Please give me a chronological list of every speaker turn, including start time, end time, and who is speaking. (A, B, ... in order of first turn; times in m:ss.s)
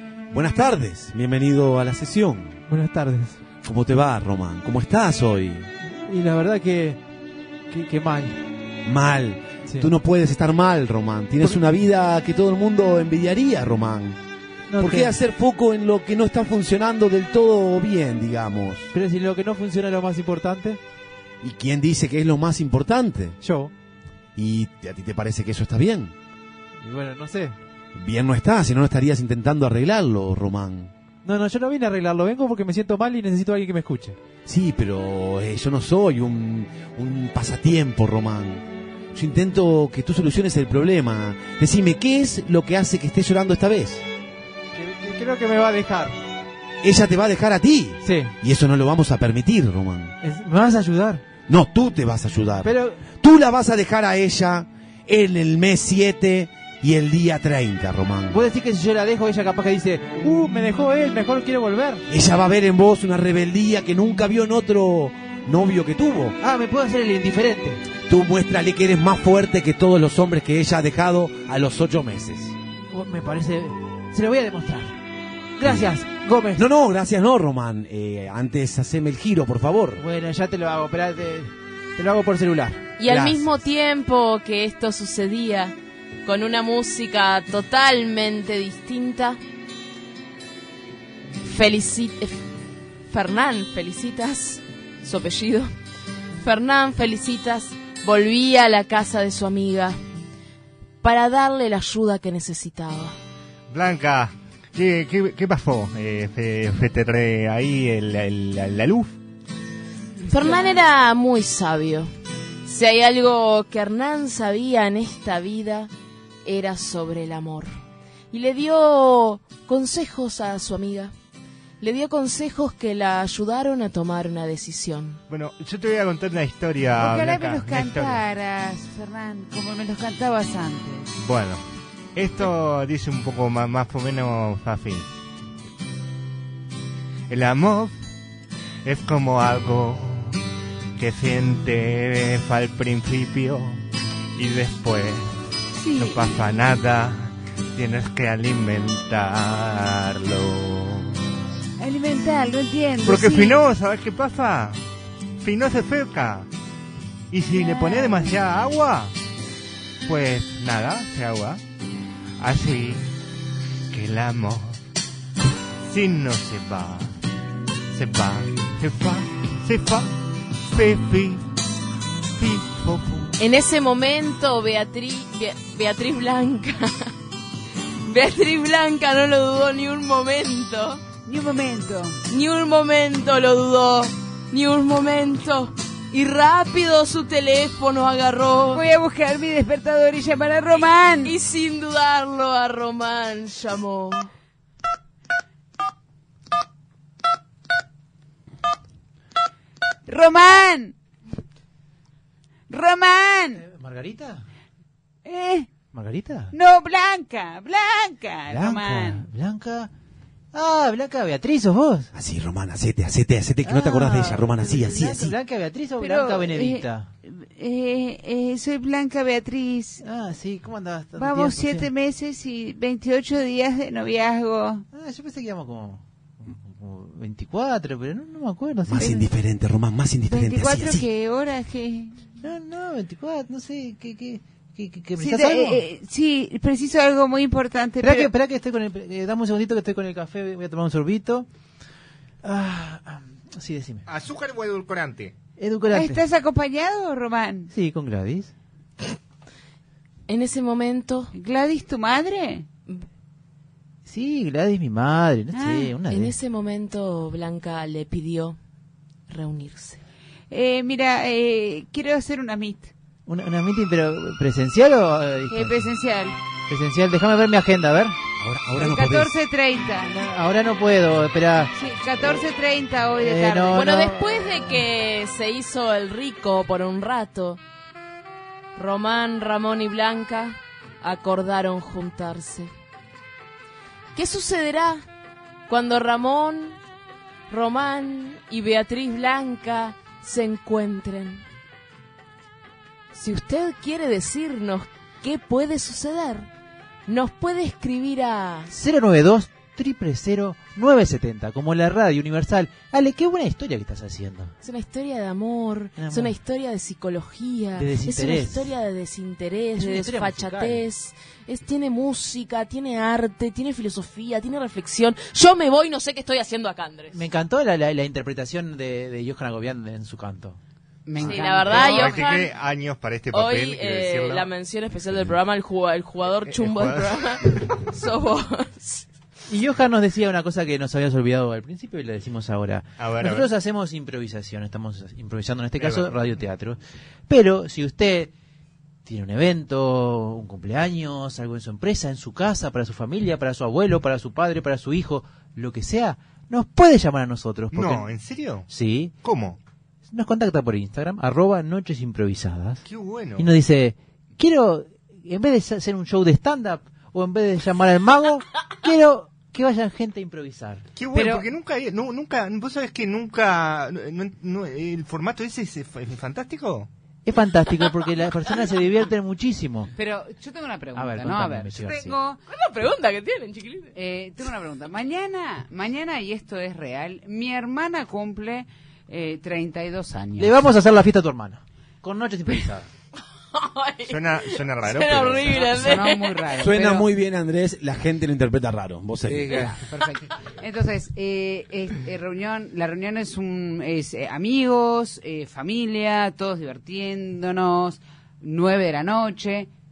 0:00.3-0:02.6 A
0:02.7-0:03.4 B
0:03.6-0:05.7 A
0:05.9-0:07.0 B
0:07.7-0:08.4 B
0:08.8-0:14.2 A
0:09.6-0:09.9 B
0:14.7-0:15.1 B
0:14.8-0:18.9 A
0:18.9-0:20.8 B
0:21.4-0:23.4 A
0:23.4-0:23.7 B
0:24.4-0:26.1 A
0:26.8-0:27.6 B
0:27.9-0:30.9 A
0:31.2-0:34.2 B
0:34.4-0:44.0 A
0:44.7-0:46.1 B
0:46.8-0:50.1 A
0:48.0-0:48.3 B
0:50.2-0:51.2 B
0:51.5-0:58.4 A
0:52.6-0:53.0 B
0:58.3-1:02.0 B
1:02.1-1:06.4 A
1:06.4-1:07.8 B
1:08.0-1:12.6 A
1:12.9-1:15.0 B
1:15.6-1:16.6 B
1:15.6-1:15.9 A
1:16.6-1:20.0 A
1:20.0-1:23.4 B
1:23.0-1:29.4 C
1:31.4-1:32.4 C
1:33.1-1:35.7 C
1:36.4-1:40.0 C
1:41.0-1:43.1 C
1:43.7-1:49.2 D
1:50.3-1:52.1 C
1:52.6-1:55.9 C
1:56.4-1:57.7 C
1:58.3-2:01.1 C
2:01.8-2:05.2 C
2:05.3-2:08.2 D
2:07.0-2:11.1 E
2:11.2-2:11.6 D
2:12.1-2:15.1 D
2:17.3-2:18.0 D
2:18.8-2:20.4 D
2:21.0-2:23.8 D
2:24.4-2:25.4 D
2:25.8-2:26.4 E
2:26.0-2:31.2 D
2:31.8-2:33.6 E
2:33.0-2:34.8 D
2:35.4-2:36.5 D
2:37.3-2:39.1 D
2:37.7-2:38.3 E
2:40.0-2:41.6 D
2:42.4-2:43.1 D
2:43.9-2:44.8 D
2:45.8-2:47.2 D
2:47.9-2:50.2 D
2:50.7-2:51.4 D
2:52.3-2:53.4 D
2:53.4-2:57.1 C
2:58.0-3:01.0 C
3:01.2-3:02.2 E
3:02.3-3:08.8 C
3:08.7-3:11.3 E
3:11.2-3:14.3 C
3:20.0-3:20.9 E
3:22.7-3:23.6 E
3:23.6-3:24.4 B
3:25.2-3:25.7 E
3:25.9-3:26.5 B
3:26.5-3:29.2 E
3:28.5-3:29.9 B
3:30.5-3:32.1 B
3:32.1-3:35.3 A
3:33.6-3:37.1 B
3:36.0-3:40.0 E
3:40.0-3:41.9 B
3:41.2-3:44.8 E
3:44.9-3:49.2 B
3:48.9-3:51.0 A
3:49.0-3:49.3 E
3:50.3-3:52.2 E
3:52.4-3:55.8 B
3:55.2-3:58.3 E
3:58.0-4:01.5 B
4:02.4-4:04.0 B
4:04.1-4:05.4 D
4:05.6-4:06.2 B
4:05.9-4:07.7 E
4:07.7-4:08.5 B
4:10.3-4:11.3 C
4:11.3-4:12.6 E
4:14.0-4:16.4 B
4:15.5-4:15.9 E
4:16.1-4:18.6 C
4:19.3-4:20.0 C
4:20.5-4:22.9 E
4:23.3-4:25.8 B
4:25.5-4:26.4 E
4:26.7-4:28.2 B
4:28.4-4:29.3 A
4:28.8-4:30.1 E
4:30.1-4:31.7 B
4:31.7-4:33.9 E
4:33.2-4:34.7 B
4:33.7-4:37.6 C
4:38.8-4:42.7 C
4:44.1-4:45.0 C
4:45.7-4:46.8 C
4:47.5-4:51.4 C
4:53.1-4:56.5 C
4:57.1-4:58.7 C
4:58.7-5:04.5 B
5:04.6-5:17.2 C
5:06.0-5:06.3 B
5:07.8-5:08.7 B
5:09.8-5:10.8 B
5:17.1-5:20.6 B
5:21.1-5:22.2 E
5:21.2-5:24.5 D
5:21.2-5:22.5 C
5:21.7-5:22.2 B
5:23.3-5:29.0 C
5:26.5-5:27.7 D
5:29.5-5:38.3 B
5:33.0-5:33.5 D
5:35.8-5:36.1 D
5:39.0-5:48.1 B
5:47.7-5:48.7 D
5:48.7-5:49.1 B
5:49.2-5:49.6 D
5:50.1-5:52.8 B
5:52.8-5:53.5 D
5:53.4-6:01.5 B
6:01.0-6:06.9 D
6:07.2-6:09.9 B
6:10.0-6:12.4 E
6:11.0-6:12.2 B
6:12.5-6:13.9 C
6:14.0-6:20.6 E
6:20.4-6:22.9 B
6:23.5-6:26.5 C
6:24.1-6:25.9 D
6:25.5-6:27.1 E
6:26.6-6:29.7 A
6:29.3-6:39.7 E